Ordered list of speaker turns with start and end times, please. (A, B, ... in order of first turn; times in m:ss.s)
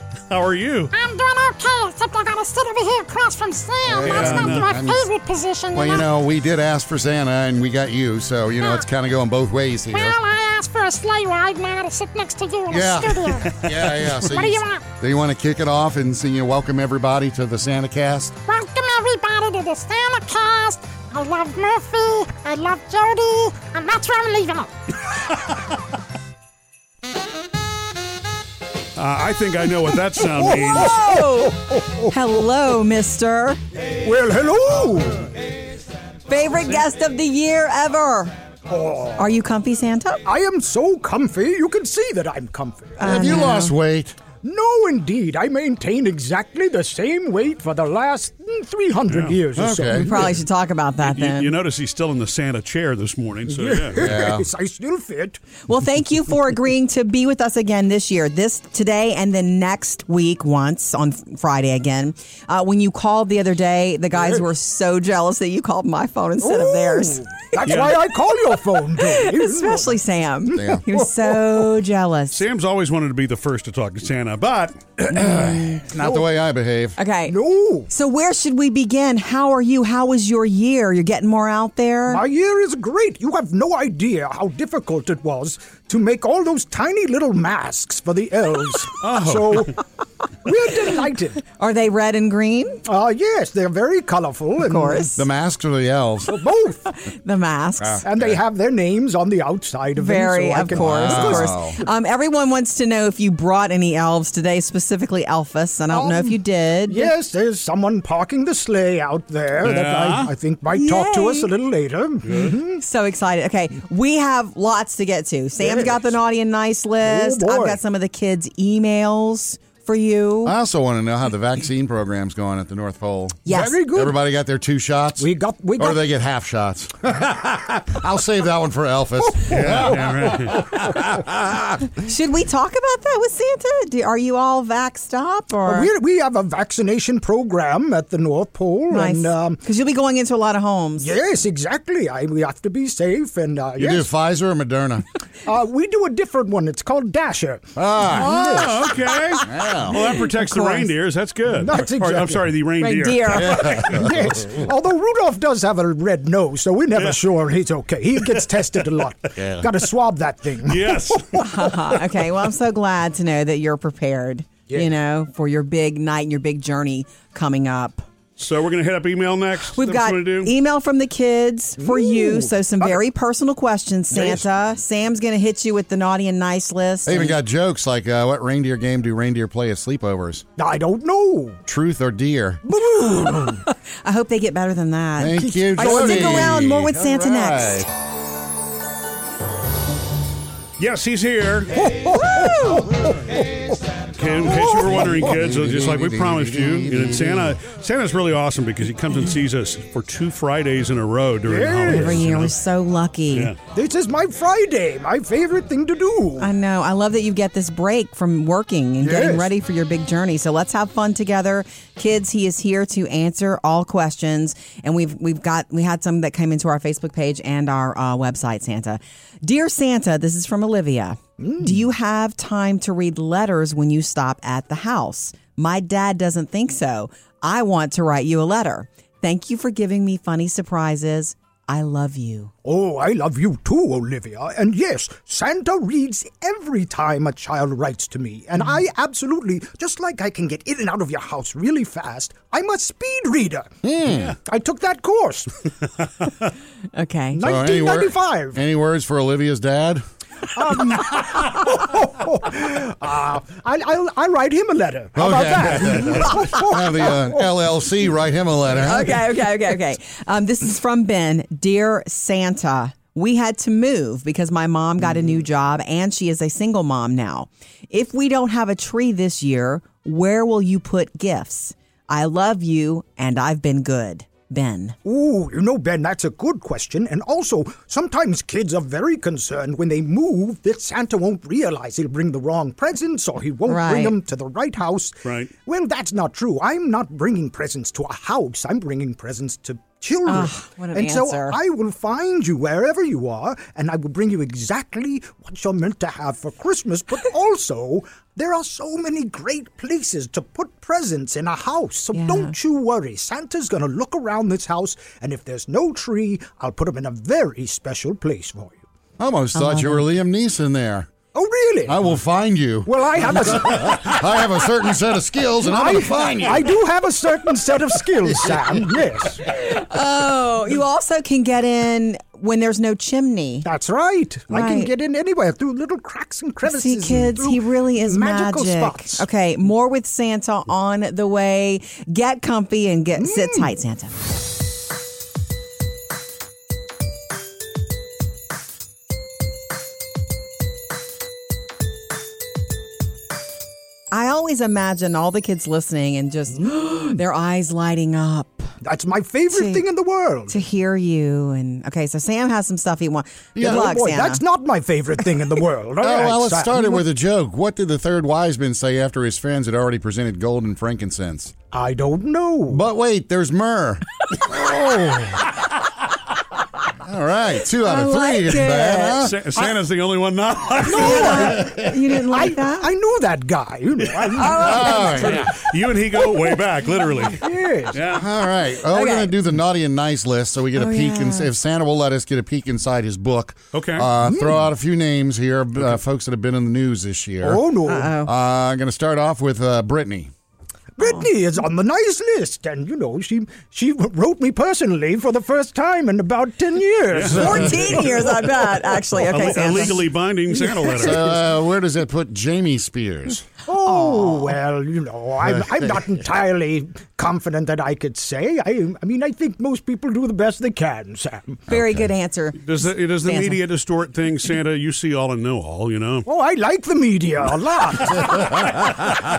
0:00.3-0:00.9 A
0:00.9-0:06.1 B
0:03.9-0:05.1 C
0:04.0-0:04.8 A
0:05.7-0:10.2 C
0:08.6-0:08.8 B
0:09.9-0:14.8 B
0:12.7-0:18.4 C
0:18.5-0:24.8 B
0:29.0-0:31.1 A
0:30.3-0:32.1 D
0:30.6-0:33.6 E
0:34.0-0:35.3 D
0:36.3-0:38.3 E
0:38.7-0:39.3 D
0:39.2-0:40.2 E
0:40.2-0:43.4 D
0:43.0-0:43.7 E
0:43.0-0:44.2 C
0:44.4-0:50.4 D
0:49.1-0:49.4 A
0:49.5-0:50.3 C
0:50.0-0:51.5 E
0:51.0-0:54.2 A
0:53.5-0:55.4 D
0:54.0-0:54.5 C
0:55.7-1:07.3 E
1:06.4-1:10.0 D
1:07.6-1:08.0 A
1:08.9-1:12.4 E
1:10.5-1:11.7 D
1:10.5-1:10.8 C
1:12.3-1:15.0 A
1:15.1-1:17.0 C
1:15.4-1:15.8 E
1:15.9-1:16.2 D
1:17.0-1:17.4 E
1:17.3-1:17.9 D
1:17.9-1:22.2 E
1:22.1-1:29.8 D
1:29.0-1:29.7 A
1:30.4-1:31.4 D
1:31.5-1:32.8 E
1:32.9-1:35.1 D
1:34.6-1:35.2 E
1:35.1-1:36.4 C
1:36.3-1:36.8 D
1:36.9-1:38.0 E
1:37.8-1:38.4 C
1:38.0-1:41.6 D
1:40.0-1:47.1 E
1:40.7-1:41.8 C
1:45.9-1:52.8 D
1:49.6-1:50.3 A
1:50.7-1:51.5 E
1:52.2-1:52.6 A
1:52.8-2:00.5 E
1:55.6-1:56.1 D
1:57.0-1:57.8 D
2:00.4-2:11.7 C
2:03.4-2:03.8 E
2:03.5-2:04.2 D
2:05.2-2:06.0 D
2:09.4-2:09.7 D
2:09.5-2:10.7 A
2:11.8-2:15.9 E
2:15.6-2:19.6 D
2:18.9-2:21.1 E
2:21.0-2:24.1 D
2:23.8-2:25.0 C
2:25.4-2:28.9 D
2:27.8-2:28.7 C
2:28.2-2:33.7 A
2:28.2-2:28.7 E
2:29.3-2:30.9 E
2:29.4-2:30.2 C
2:31.6-2:32.5 D
2:32.8-2:33.9 E
2:33.3-2:34.6 C
2:33.6-2:42.0 D
2:39.4-2:39.7 C
2:40.6-2:41.4 A
2:41.4-2:48.0 E
2:48.4-2:50.5 A
2:49.7-2:57.4 E
2:51.8-2:53.0 D
2:54.1-2:54.4 D
2:57.0-3:00.4 C
3:00.6-3:01.6 D
3:01.7-3:02.6 C
3:02.6-3:03.6 D
3:03.6-3:07.9 E
3:05.2-3:07.9 C
3:05.4-3:06.6 D
3:10.8-3:11.8 A
3:11.7-3:13.8 D
3:14.2-3:22.5 A
3:14.4-3:15.2 D
3:14.8-3:17.6 C
3:21.4-3:22.2 D
3:21.9-3:23.5 E
3:23.7-3:26.5 D
3:26.4-3:52.5 E
3:29.0-3:29.5 D
3:41.4-3:41.8 D
3:52.6-4:03.7 D
4:03.8-4:04.3 C
4:04.3-4:05.5 D
4:06.9-4:07.4 E
4:07.3-4:08.6 D
4:07.4-4:10.0 C
4:10.5-4:17.4 D
4:15.1-4:19.2 C
4:18.7-4:34.9 E
4:35.0-5:08.8 D
4:43.6-4:44.2 E
4:45.2-4:45.5 A
4:50.2-4:51.6 E
5:02.1-5:02.5 E
5:09.2-5:11.1 C
5:09.5-5:10.1 E
5:11.3-5:12.0 D
5:11.8-5:16.8 C
5:12.8-5:14.2 D
5:15.6-5:19.5 D
5:19.5-5:23.7 E
5:23.6-5:29.3 D
5:24.5-5:24.9 E
5:26.6-5:34.1 E
5:33.2-5:33.7 D
5:44.1-5:48.7 E
5:46.6-5:47.0 D
5:48.8-5:50.6 D
5:49.5-5:49.8 E
5:50.5-5:54.4 E
5:53.5-5:53.9 C
5:53.6-5:57.0 D
5:56.0-6:01.5 C
6:01.7-6:02.8 D
6:02.7-6:05.6 C
6:07.0-6:09.4 C
6:07.8-6:09.2 E
6:09.2-6:11.6 A
6:10.8-6:15.7 D
6:10.8-6:12.9 E
6:11.4-6:12.0 C
6:14.4-6:15.4 E
6:14.5-6:15.6 C
6:15.4-6:18.3 A
6:17.3-6:18.0 D
6:18.1-6:30.3 C
6:18.8-6:19.4 E
6:20.7-6:21.5 E
6:23.7-6:24.1 A
6:24.2-6:24.6 D
6:27.4-6:28.1 D
6:27.8-6:28.3 E
6:31.0-6:38.2 D
6:37.1-6:38.1 A
6:37.3-6:40.0 E
6:39.2-6:41.3 A
6:41.0-6:43.4 C
6:41.0-6:41.3 D
6:43.7-6:51.7 D
6:43.8-6:44.6 E
6:51.7-6:53.6 E
6:51.7-6:52.1 C
6:52.6-6:56.3 A
6:56.2-6:58.8 D
6:58.6-6:58.8 C